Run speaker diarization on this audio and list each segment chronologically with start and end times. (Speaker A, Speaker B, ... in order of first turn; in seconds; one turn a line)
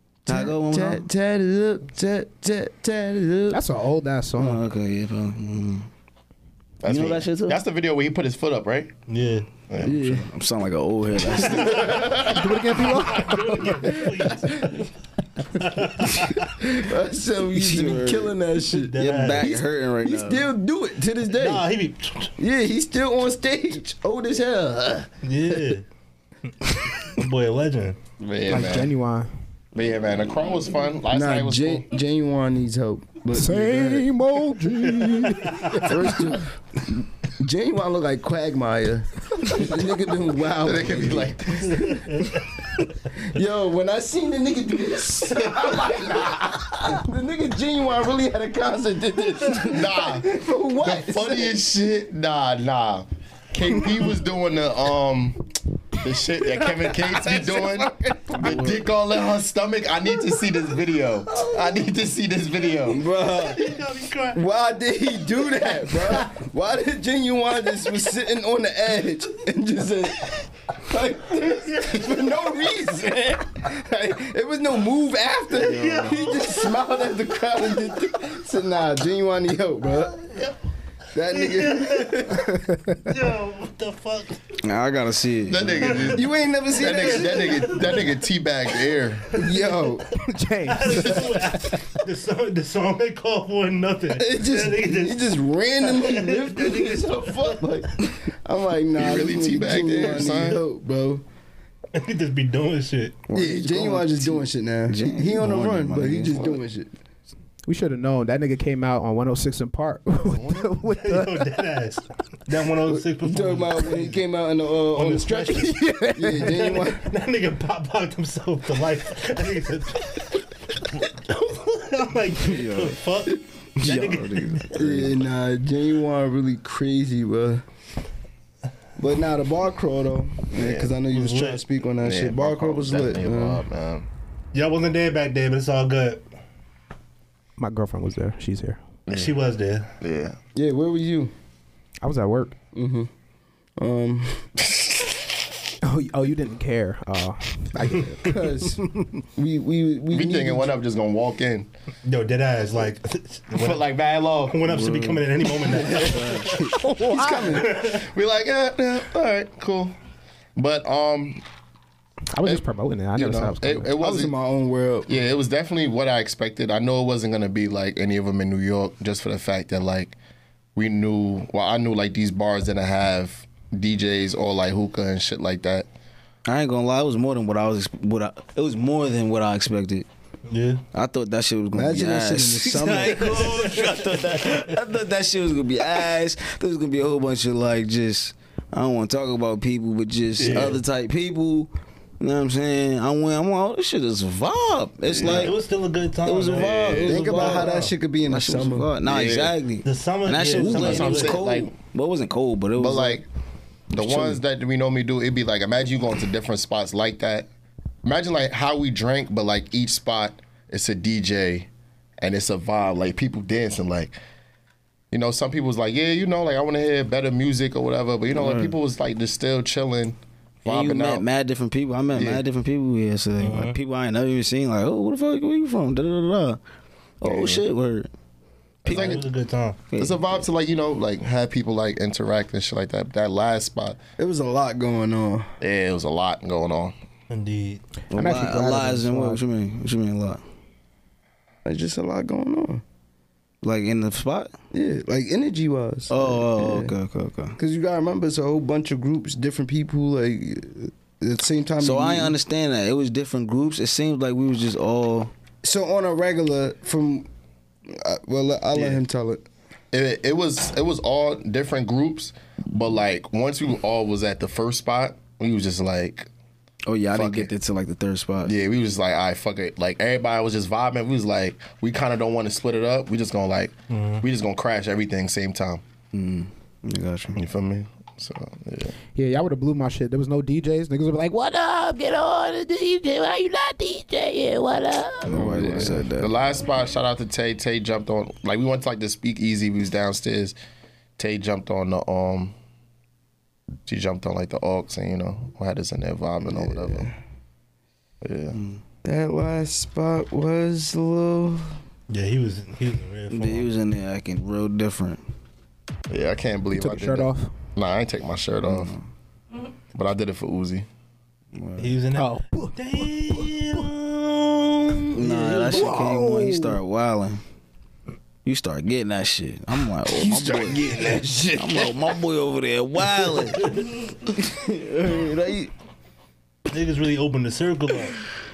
Speaker A: 0.2-3.6
Speaker B: 0.3-1.1
Speaker C: 3.5-4.6
Speaker B: 4.4-5.9
Speaker D: 6.8-8.9
Speaker B: 6.8-7.6
Speaker E: 9.1-9.4
Speaker D: 9.7-10.2
Speaker A: 9.8-10.2
Speaker B: 9.8-11.9
Speaker E: 11.4-14.9
Speaker D: 11.4-12.8
Speaker C: 12.2-14.3
Speaker E: 15.4-16.5
Speaker A: 16.0-21.7
Speaker B: 17.5-18.4
Speaker E: 18.7-19.5
Speaker B: 18.9-20.5
Speaker E: 21.3-22.3
Speaker A: 22.4-25.6
Speaker E: 25.2-25.9
Speaker E: 26.8-28.0
Speaker D: 28.2-28.9
Speaker C: 28.5-29.3
Speaker D: 29.7-31.9
Speaker A: 31.1-34.1
Speaker C: 33.3-36.4
Speaker E: 35.4-35.9
Speaker A: 35.8-36.5
Speaker A: 37.4-42.3
Speaker D: 40.5-42.0
Speaker E: 41.7-42.5
Speaker A: 43.1-51.6
Speaker D: 49.6-55.4
Speaker D: 56.0-63.0
Speaker B: 58.3-58.8
Speaker A: 62.8-63.7
Speaker E: 63.2-64.4
Speaker A: 64.3-80.2
Speaker E: 65.6-66.3
Speaker E: 75.5-77.2
Speaker B: 75.7-76.1
Speaker A: 81.1-82.5
Speaker E: 81.3-82.4
Speaker E: 83.0-84.6
Speaker B: 84.6-85.9
Speaker D: 85.5-89.4
Speaker E: 85.6-86.2
Speaker A: 86.1-87.7
Speaker E: 86.8-88.2
Speaker E: 89.3-89.9
Speaker A: 89.3-90.1
Speaker C: 90.2-92.0
Speaker E: 90.7-97.7
Speaker A: 94.1-101.2
Speaker D: 99.0-100.6
Speaker E: 101.9-103.2
Speaker B: 103.3-106.6
Speaker A: 103.3-106.9
Speaker C: 107.7-111.5
Speaker D: 110.3-110.7
Speaker E: 110.8-114.2
Speaker A: 112.9-117.0
Speaker E: 114.9-115.8
Speaker C: 115.5-116.6
Speaker E: 116.4-125.0
Speaker B: 122.5-123.0
Speaker B: 123.8-125.1
Speaker A: 124.7-127.6
Speaker A: 129.0-133.6
Speaker D: 130.5-130.9
Speaker E: 131.1-131.6
Speaker D: 132.0-134.1
Speaker E: 134.5-136.2
Speaker C: 137.6-138.8
Speaker D: 139.1-139.4
Speaker E: 139.1-139.9
Speaker D: 140.0-140.4
Speaker A: 140.5-141.3
Speaker C: 142.0-142.6
Speaker A: 142.7-143.1
Speaker A: 143.8-144.5
Speaker C: 145.8-148.3
Speaker A: 147.8-148.8
Speaker E: 147.9-148.3
Speaker A: 149.3-150.8
Speaker D: 150.1-151.7
Speaker E: 152.0-153.9
Speaker D: 153.5-154.7
Speaker E: 154.4-156.7
Speaker B: 154.7-155.2
Speaker A: 155.6-157.8
Speaker B: 155.9-156.4
Speaker C: 156.7-157.5
Speaker E: 157.5-158.0
Speaker D: 157.8-159.9
Speaker D: 160.6-161.4
Speaker C: 162.3-163.9
Speaker D: 162.4-164.3
Speaker A: 163.9-165.1
Speaker D: 165.1-170.2
Speaker D: 170.8-175.9
Speaker B: 176.4-180.1
Speaker E: 180.5-180.8
Speaker B: 180.9-195.5
Speaker A: 181.7-183.7
Speaker E: 183.2-184.6
Speaker E: 190.4-190.8
Speaker D: 195.1-195.5
Speaker E: 195.2-197.9
Speaker B: 196.2-197.7
Speaker A: 197.0-198.9
Speaker B: 198.3-203.2
Speaker D: 199.0-199.6
Speaker E: 199.8-201.4
Speaker D: 200.5-201.7
Speaker D: 202.8-203.2
Speaker B: 203.9-204.4
Speaker D: 203.9-207.5
Speaker D: 208.0-211.7
Speaker D: 212.2-214.2
Speaker D: 215.1-221.2
Speaker B: 218.3-218.8
Speaker B: 220.6-226.6
Speaker D: 222.1-222.4
Speaker E: 223.4-223.8
Speaker B: 227.2-228.1
Speaker D: 227.2-227.6
Speaker B: 228.8-229.2
Speaker D: 228.8-229.2
Speaker E: 228.8-229.8
Speaker B: 229.9-230.4
Speaker D: 230.0-234.0
Speaker A: 234.2-235.5
Speaker D: 235.6-236.9
Speaker E: 237.3-237.8
Speaker B: 238.1-240.4
Speaker C: 238.1-239.4
Speaker A: 241.6-242.8
Speaker B: 243.6-244.5
Speaker A: 244.7-246.9
Speaker B: 246.1-247.6
Speaker A: 247.6-252.3
Speaker B: 251.8-255.3
Speaker A: 255.6-257.3
Speaker A: 257.9-259.4
Speaker D: 259.9-266.3
Speaker B: 266.9-268.5
Speaker D: 267.1-267.5
Speaker D: 268.4-275.8
Speaker E: 273.9-274.2
Speaker B: 276.1-277.4
Speaker D: 277.3-278.9
Speaker C: 279.1-285.4
Speaker B: 285.2-286.3
Speaker D: 285.4-290.6
Speaker A: 285.4-286.1
Speaker D: 291.2-292.5
Speaker D: 293.9-297.1
Speaker A: 296.5-297.2
Speaker D: 298.2-298.6
Speaker B: 298.5-298.8
Speaker A: 299.0-301.8
Speaker E: 302.1-303.7
Speaker B: 303.3-305.2
Speaker D: 306.1-308.9
Speaker C: 306.8-307.5
Speaker B: 308.6-309.1
Speaker D: 309.9-310.9
Speaker B: 311.5-311.9
Speaker E: 311.8-315.9
Speaker C: 312.1-313.8
Speaker B: 315.1-317.4
Speaker C: 315.6-316.8
Speaker B: 318.4-325.7
Speaker A: 320.0-322.1
Speaker E: 326.7-328.2